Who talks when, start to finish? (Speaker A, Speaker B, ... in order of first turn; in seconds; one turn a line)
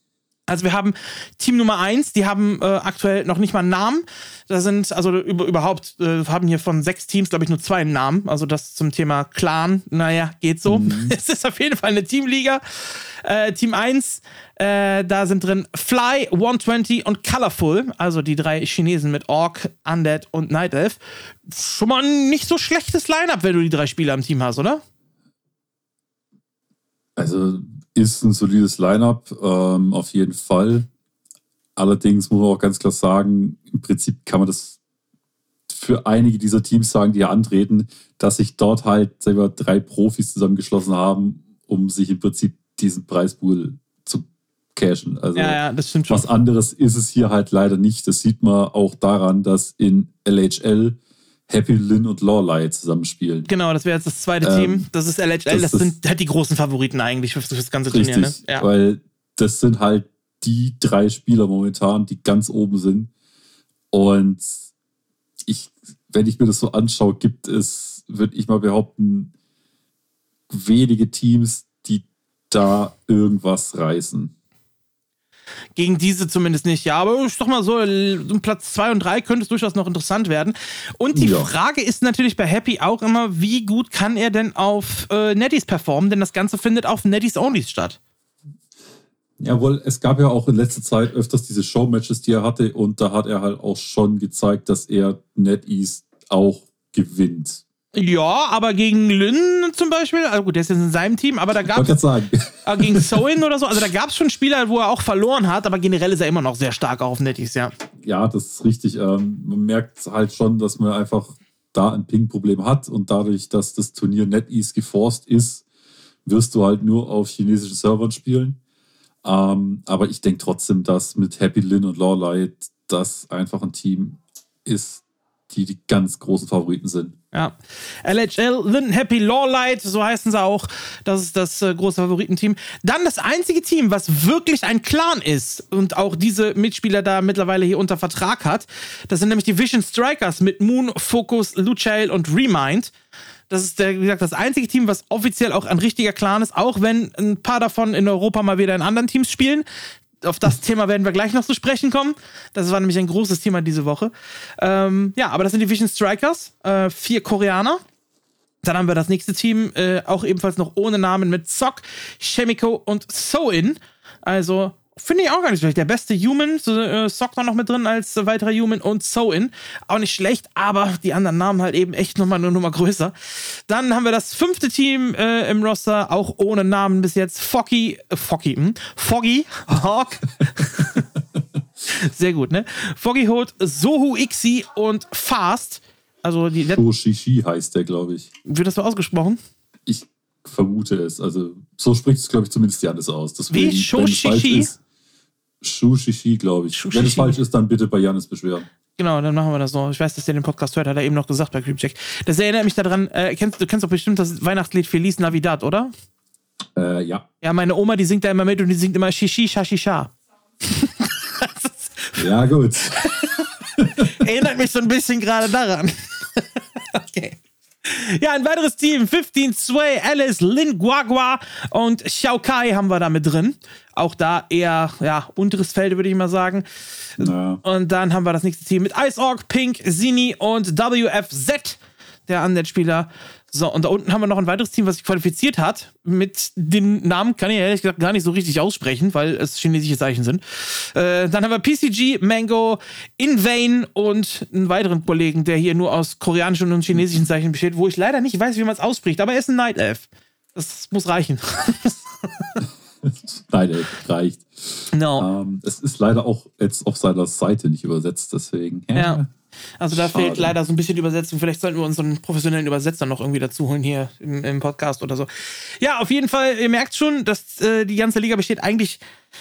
Speaker A: 0.5-24.8
Speaker B: 10.7-11.1
Speaker B: 27.1-30.9
Speaker B: 31.8-34.8
Speaker B: 35.7-51.0
Speaker A: 45.4-46.2
Speaker B: 51.5-53.5
Speaker A: 53.5-58.6
Speaker B: 54.4-54.9
Speaker B: 55.5-56.0
Speaker B: 57.9-63.1
Speaker B: 63.9-64.5
Speaker B: 65.5-69.3
Speaker B: 70.5-74.3
Speaker A: 75.8-88.0
Speaker B: 81.1-81.5
Speaker B: 89.4-97.6
Speaker A: 97.9-102.0
Speaker B: 101.7-103.1
Speaker A: 102.6-107.7
Speaker B: 108.0-115.6
Speaker B: 116.2-118.6
Speaker B: 119.2-127.2
Speaker A: 127.3-142.9
Speaker A: 143.5-149.7
Speaker A: 150.2-157.8
Speaker A: 158.6-173.1
Speaker A: 173.7-181.0
Speaker A: 181.9-186.8
Speaker B: 186.7-188.3
Speaker A: 188.4-189.4
Speaker B: 189.9-194.8
Speaker A: 193.5-194.7
Speaker B: 195.6-198.7
Speaker A: 196.7-197.4
Speaker A: 199.0-205.9
Speaker B: 206.8-207.2
Speaker A: 207.4-210.1
Speaker A: 210.6-212.2
Speaker B: 212.2-213.0
Speaker A: 212.8-226.6
Speaker A: 227.2-252.6
Speaker B: 227.2-227.6
Speaker B: 253.0-259.3
Speaker A: 254.9-255.3
Speaker A: 258.9-259.2
Speaker A: 259.8-269.0
Speaker B: 259.9-260.5